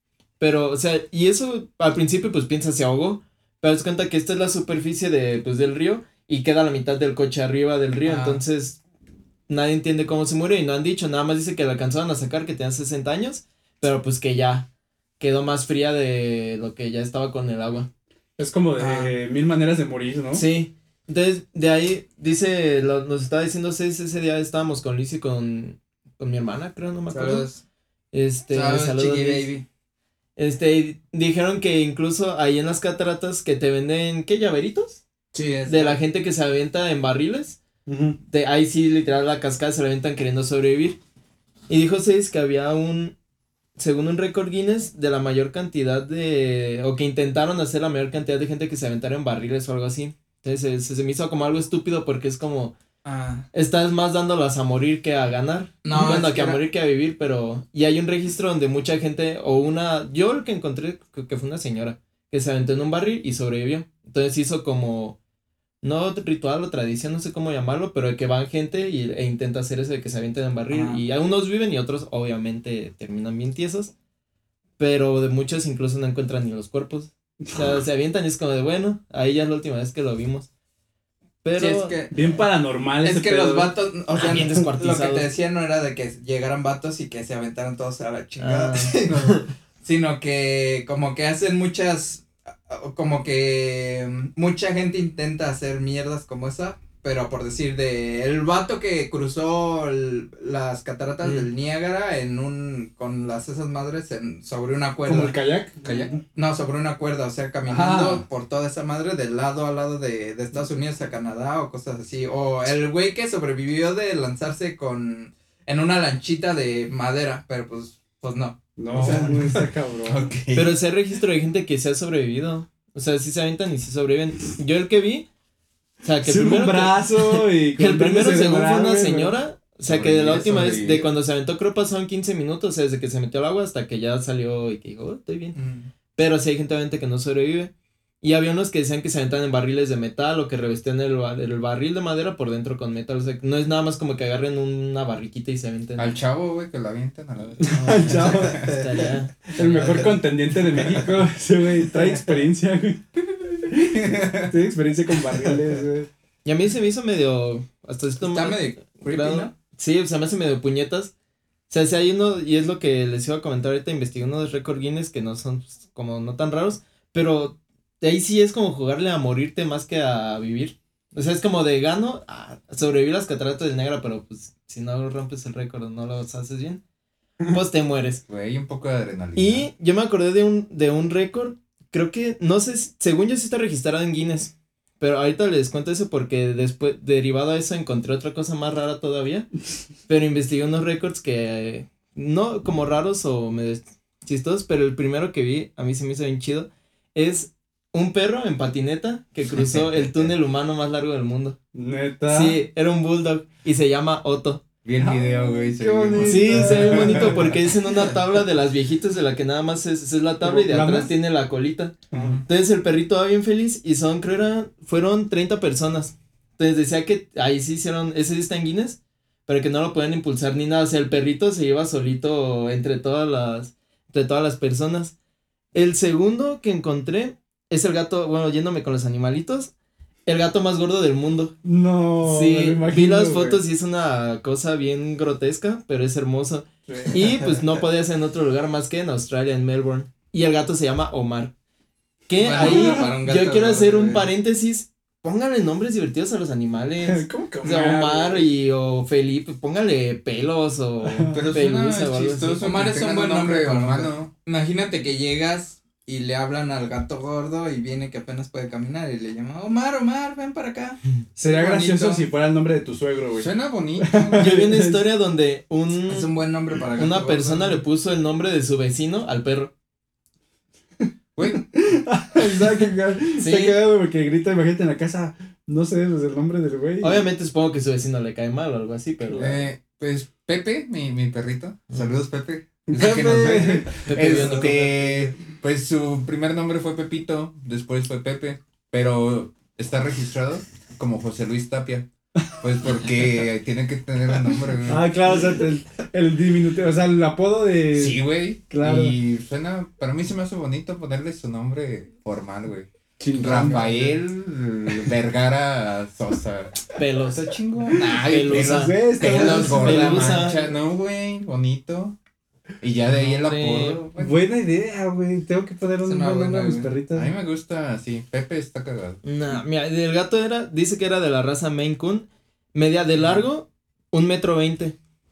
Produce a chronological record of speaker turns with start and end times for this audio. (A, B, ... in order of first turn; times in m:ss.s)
0:00.4-0:08.8 A
0:08.0-0:08.4 B
0:09.5-0:14.7 A
0:15.2-0:17.9 A
0:18.4-0:20.4 C
0:18.8-0:19.2 B
0:20.3-0:27.5 A
0:27.1-0:27.6 B
0:28.1-0:29.5 A
0:28.5-0:29.6 B
0:30.4-0:35.0 A
0:35.3-0:36.0 B
0:35.7-0:37.6 A
0:37.9-0:38.2 C
0:38.2-0:41.0 A
0:41.7-0:43.2 A
0:43.8-0:52.8 A
0:53.0-0:53.5 B
0:53.5-1:05.2 A
0:55.8-0:56.6 B
1:05.8-1:13.9 A
1:10.7-1:11.0 B
1:14.8-1:20.5 A
1:21.4-1:22.0 A
1:21.6-1:22.3 B
1:22.1-1:23.7 C
1:23.0-1:59.6 B
1:24.2-1:25.3 A
1:28.4-1:29.5 A
1:45.1-1:46.2 C
1:47.7-1:48.2 C
1:58.8-2:00.2 C
2:00.1-2:00.8 D
2:00.5-2:05.3 A
2:06.0-2:15.6 A
2:06.2-2:09.4 C
2:09.8-2:11.1 D
2:15.6-2:15.9 B
2:16.2-2:26.2 A
2:26.0-2:28.8 D
2:27.6-2:28.7 C
2:28.0-2:29.1 B
2:28.6-2:30.1 A
2:29.6-2:36.1 C
2:29.7-2:30.1 B
2:33.9-2:34.5 D
2:36.4-2:41.1 A
2:38.2-2:39.5 B
2:41.7-2:56.8 A
2:57.5-2:58.2 A
2:58.3-2:59.7 D
2:59.4-3:09.5 A
3:10.1-3:21.6 A
3:19.7-3:20.3 D
3:21.7-3:22.6 C
3:22.3-3:24.6 A
3:24.8-3:27.6 D
3:25.0-3:27.6 C
3:26.2-3:45.1 A
3:30.4-3:31.1 C
3:32.1-3:32.4 C
3:32.1-3:32.4 D
3:45.7-3:49.7 A
3:50.3-3:51.6 A
3:51.6-3:53.6 C
3:52.2-4:01.5 A
3:56.9-3:57.4 C
4:02.3-4:12.7 A
4:02.4-4:04.3 B
4:02.6-4:03.2 C
4:07.0-4:08.5 C
4:11.0-4:11.4 C
4:11.3-4:14.3 D
4:12.6-4:22.2 B
4:21.4-4:25.0 C
4:23.4-4:24.6 D
4:24.4-4:26.3 A
4:26.0-4:27.8 B
4:27.0-4:29.7 A
4:31.4-4:31.6 D
4:31.4-4:37.2 C
4:33.4-4:33.8 A
4:37.0-4:39.6 A
4:39.3-4:52.1 D
4:42.9-4:44.0 C
4:44.0-4:45.0 A
4:52.6-4:55.1 D
4:54.9-4:59.2 C
4:57.9-5:06.8 D
5:03.2-5:04.1 C
5:07.0-5:07.5 A
5:07.4-5:10.5 C
5:07.9-5:12.2 D
5:08.0-5:10.6 A
5:12.8-5:14.4 D
5:13.3-5:14.0 A
5:14.2-5:17.3 C
5:16.0-5:17.0 B
5:17.1-5:19.2 D
5:19.2-5:25.0 A